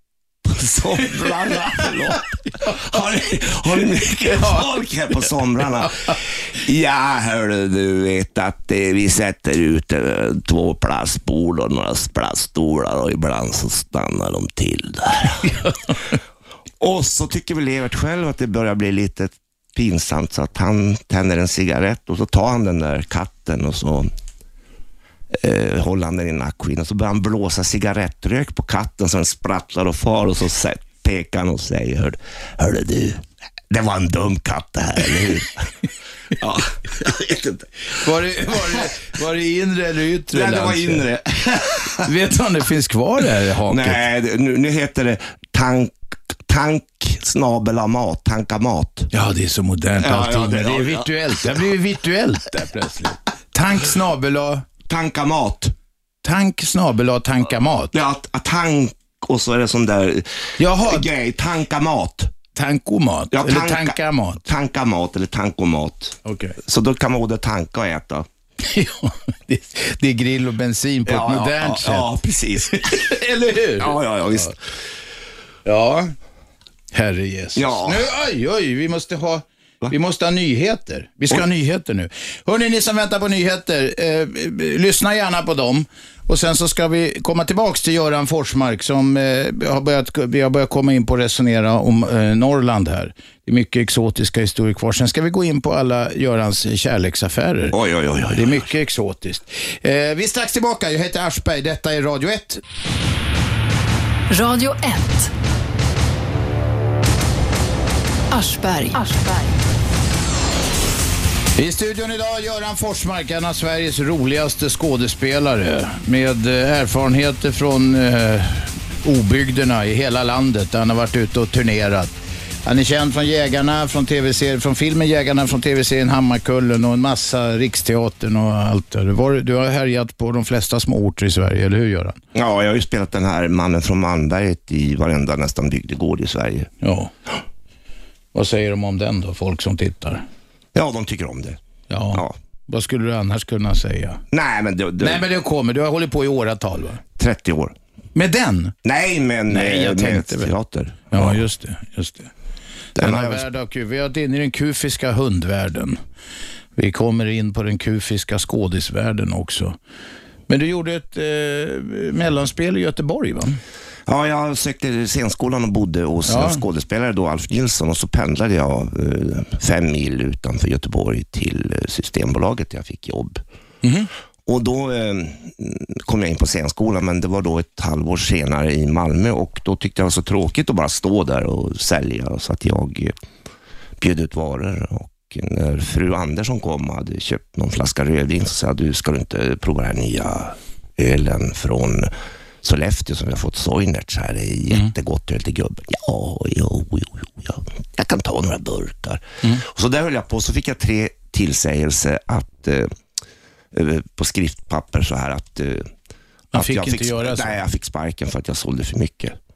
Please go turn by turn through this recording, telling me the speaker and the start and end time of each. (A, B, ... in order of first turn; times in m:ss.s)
0:00.4-0:15.6 A
0:04.3-0:04.7 B
0:16.8-0:24.1 A
0:25.3-0:35.7 A
0:36.3-0:38.8 A
0:37.9-0:41.1 B
0:40.3-0:42.1 A
0:42.0-0:44.0 B
0:43.6-0:49.1 A
0:49.1-0:54.6 B
0:50.0-0:51.6 A
0:54.9-0:55.7 A
0:56.2-0:57.9 B
0:57.9-1:02.3 A
1:00.6-1:01.1 B
1:02.5-1:04.4 B
1:03.3-1:08.3 A
1:06.2-1:06.6 B
1:08.6-1:14.5 B
1:11.0-1:13.2 A
1:13.8-1:14.7 A
1:15.6-1:16.1 B
1:16.9-1:37.8 B
1:17.6-1:18.1 A
1:37.7-1:38.7 A
1:38.3-1:42.6 B
1:44.3-1:45.3 C
1:48.3-1:49.6 C
1:51.6-2:02.1 B
2:02.6-2:12.2 B
2:12.3-2:16.7 A
2:16.8-2:17.1 B
2:18.3-2:20.2 B
2:20.7-2:21.6 A
2:21.9-2:24.2 B
2:24.3-2:25.2 A
2:25.0-2:27.0 B
2:27.2-2:27.8 A
2:28.1-2:28.7 B
2:28.8-2:31.4 A
2:29.5-2:30.5 B
2:31.1-2:32.3 B
2:32.9-2:33.4 A
2:33.0-2:36.0 B
2:36.8-2:39.8 B
2:40.5-2:43.6 B
2:44.1-2:53.4 A
2:46.2-2:46.6 B
2:53.8-2:54.1 B
2:54.4-3:03.2 A
3:04.0-3:22.9 A
3:23.7-3:25.9 A
3:26.5-3:27.6 B
3:26.5-3:29.4 A